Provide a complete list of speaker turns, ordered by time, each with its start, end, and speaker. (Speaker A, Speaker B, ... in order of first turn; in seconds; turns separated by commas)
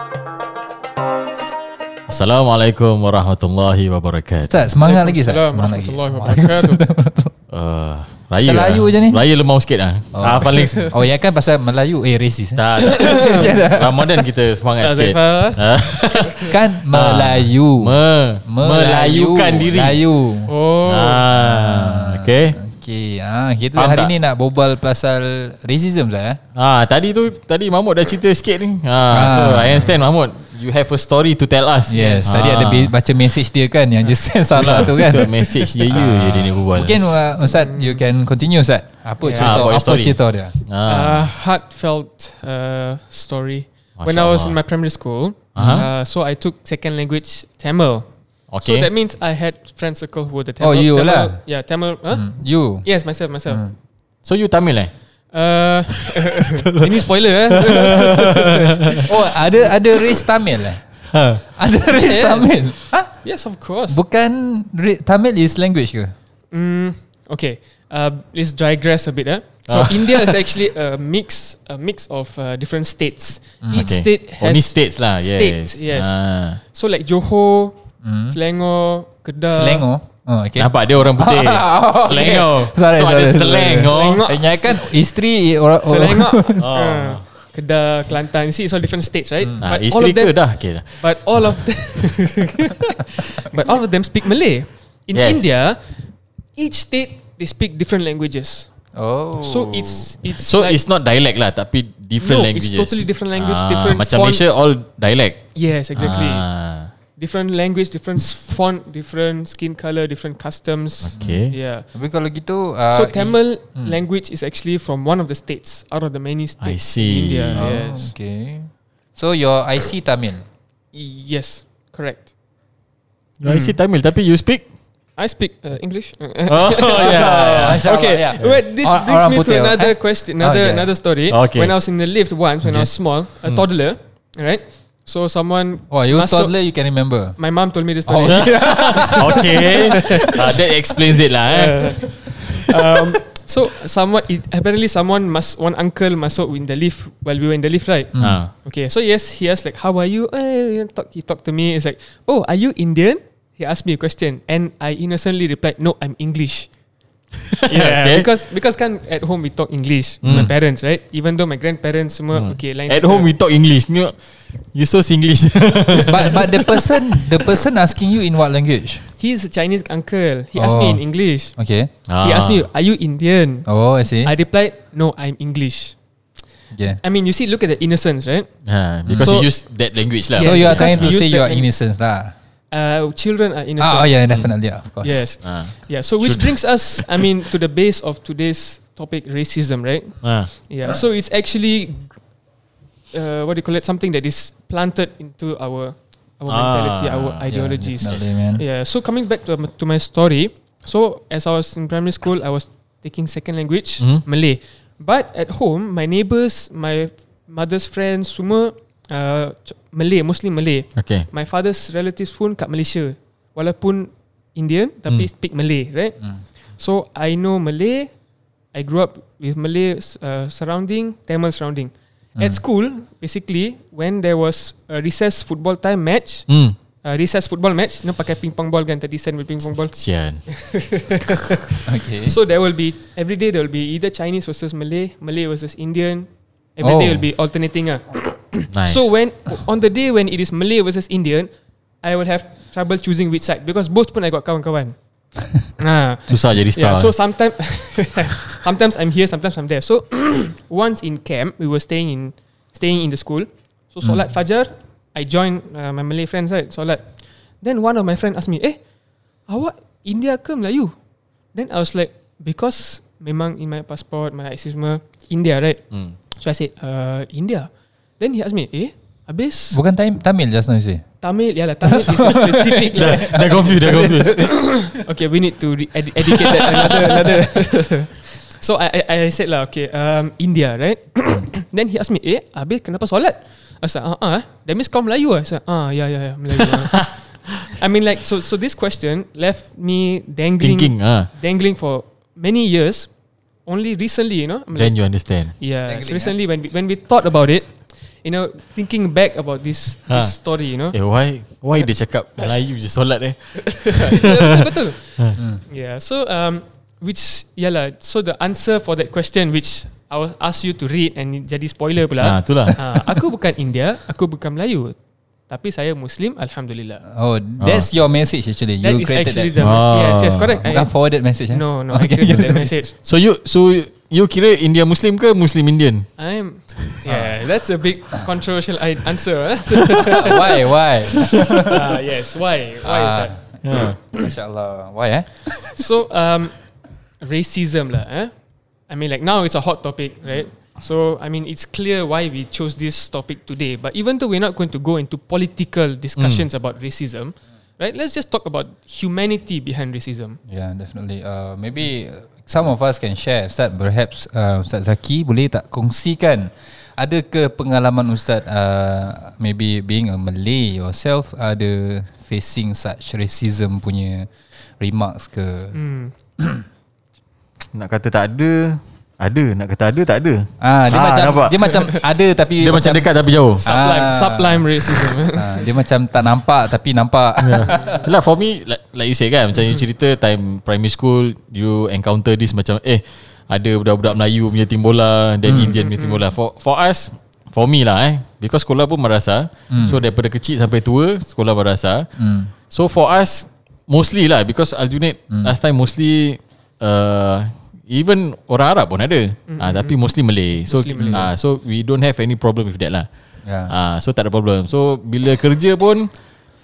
Speaker A: 2.1-4.6, Speaker B: 4.4-7.3, Speaker C: 4.8-6.8, Speaker A: 7.5-10.9, Speaker B: 8.4-9.2, Speaker B: 10.1-14.0, Speaker A: 12.6-20.0, Speaker C: 12.9-13.5, Speaker C: 14.8-16.5, Speaker B: 16.4-20.5, Speaker C: 20.5-21.2, Speaker A: 20.9-22.6, Speaker B: 21.3-26.4, Speaker A: 23.8-24.1, Speaker A: 26.6-32.9, Speaker B: 29.1-29.9, Speaker B: 31.9-40.5, Speaker C: 31.9-32.4, Speaker A: 34.5-37.0, Speaker C: 37.5-38.0, Speaker C: 39.2-39.7, Speaker A: 39.4-41.3, Speaker C: 40.9-53.7, Speaker A: 44.0-44.6, Speaker A: 45.5-45.9, Speaker B: 45.6-45.9, Speaker A: 48.5-48.9, Speaker B: 50.6-51.4, Speaker B: 52.1-52.9, Speaker B: 53.5-53.7, Speaker A: 54.2-54.9, Speaker C: 55.3-59.3, Speaker A: 57.5-59.0, Speaker B: 59.1-63.2, Speaker A: 61.1-61.4, Speaker C: 61.9-64.0, Speaker B: 63.9-66.1, Speaker C: 66.5-79.9, Speaker A: 69.7-70.4, Speaker B: 73.6-74.0, Speaker A: 73.7-76.6, Speaker B: 78.0-78.4, Speaker B: 79.5-86.6, Speaker A: 80.6-84.2, Speaker C: 83.8-85.0, Speaker C: 85.8-98.7, Speaker A: 86.6-87.3, Speaker A: 89.6-91.7, Speaker A: 95.1-95.5, Speaker B: 99.0-100.1, Speaker C: 99.4-100.8, Speaker A: 100.4-105.4, Speaker C: 102.2-104.4, Speaker C: 105.5-106.5, Speaker A: 106.0-106.9, Speaker C: 107.2-111.9, Speaker A: 111.0-111.6, Speaker B: 111.9-114.0, Speaker C: 112.9-118.1, Speaker A: 116.6-117.7, Speaker B: 117.5-120.5, Speaker C: 120.9-122.3, Speaker A: 123.4-124.7, Speaker C: 123.5-123.8, Speaker C: 125.2-136.6, Speaker A: 126.5-127.8, Speaker B: 127.0-130.9, Speaker A: 131.3-131.8, Speaker B: 135.9-137.4, Speaker C: 137.4-140.7, Speaker B: 138.1-140.6, Speaker A: 138.3-142.0, Speaker C: 141.4-156.7, Speaker B: 148.2-148.4, Speaker A: 148.2-148.5, Speaker A: 157.6-158.3, Speaker C: 157.7-163.3, Speaker A: 160.2-160.5, Speaker B: 160.3-160.5, Speaker A: 162.3-166.4, Speaker B: 166.1-169.1, Speaker C: 169.2-176.0, Speaker B: 170.6-171.9, Speaker A: 172.1-172.7, Speaker B: 173.7-174.3, Speaker B: 176.7-177.0, Speaker C: 177.0-181.7, Speaker A: 178.7-181.2, Speaker B: 179.1-179.5, Speaker B: 180.4-182.3, Speaker C: 182.7-184.3, Speaker B: 183.8-185.4, Speaker A: 184.3-184.6, Speaker C: 185.0-192.2, Speaker A: 185.4-187.1, Speaker A: 190.2-190.5, Speaker C: 193.1-218.1, Speaker A: 196.5-197.5, Speaker B: 197.5-198.6, Speaker A: 204.0-204.2, Speaker A: 211.0-211.3, Speaker C: 218.7-241.5, Speaker A: 226.5-226.8, Speaker A: 229.9-230.4, Speaker B: 231.8-232.3, Speaker B: 236.8-237.3, Speaker A: 238.7-239.1, Speaker C: 242.0-245.0, Speaker C: 245.5-258.8, Speaker A: 246.3-247.1, Speaker C: 259.5-260.9, Speaker C: 261.5-269.8, Speaker B: 269.7-271.1, Speaker C: 271.2-293.1, Speaker B: 271.8-275.0, Speaker A: 272.9-274.4, Speaker A: 290.6-291.3, Speaker C: 293.6-301.0, Speaker A: 294.7-295.6, Speaker B: 295.9-296.4, Speaker A: 300.1-300.3, Speaker A: 300.9-304.7, Speaker C: 303.6-315.0, Speaker A: 312.2-312.8, Speaker C: 315.5-317.0, Speaker B: 317.1-319.8, Speaker A: 317.6-317.9, Speaker C: 318.8-323.0, Speaker A: 319.6-320.5, Speaker B: 320.6-322.8, Speaker A: 323.0-326.1, Speaker C: 326.2-330.7, Speaker B: 327.1-327.4, Speaker B: 330.1-331.9, Speaker C: 331.2-333.4, Speaker B: 332.8-335.5, Speaker A: 333.6-334.0, Speaker C: 335.7-338.3, Speaker C: 338.9-350.4, Speaker A: 346.2-346.4, Speaker B: 350.5-365.8, Speaker C: 365.7-366.1, Speaker B: 366.4-366.6, Speaker A: 367.7-372.0, Speaker B: 370.6-373.1, Speaker A: 372.6-373.7, Speaker B: 373.6-378.1, Speaker C: 373.6-375.7, Speaker A: 377.4-403.1, Speaker C: 377.7-378.0, Speaker B: 385.4-385.7, Speaker C: 385.6-386.2, Speaker B: 389.7-390.0, Speaker B: 392.2-392.5, Speaker C: 399.5-400.0, Speaker C: 400.6-401.3, Speaker B: 401.0-401.3, Speaker B: 403.4-403.7, Speaker A: 403.7-406.1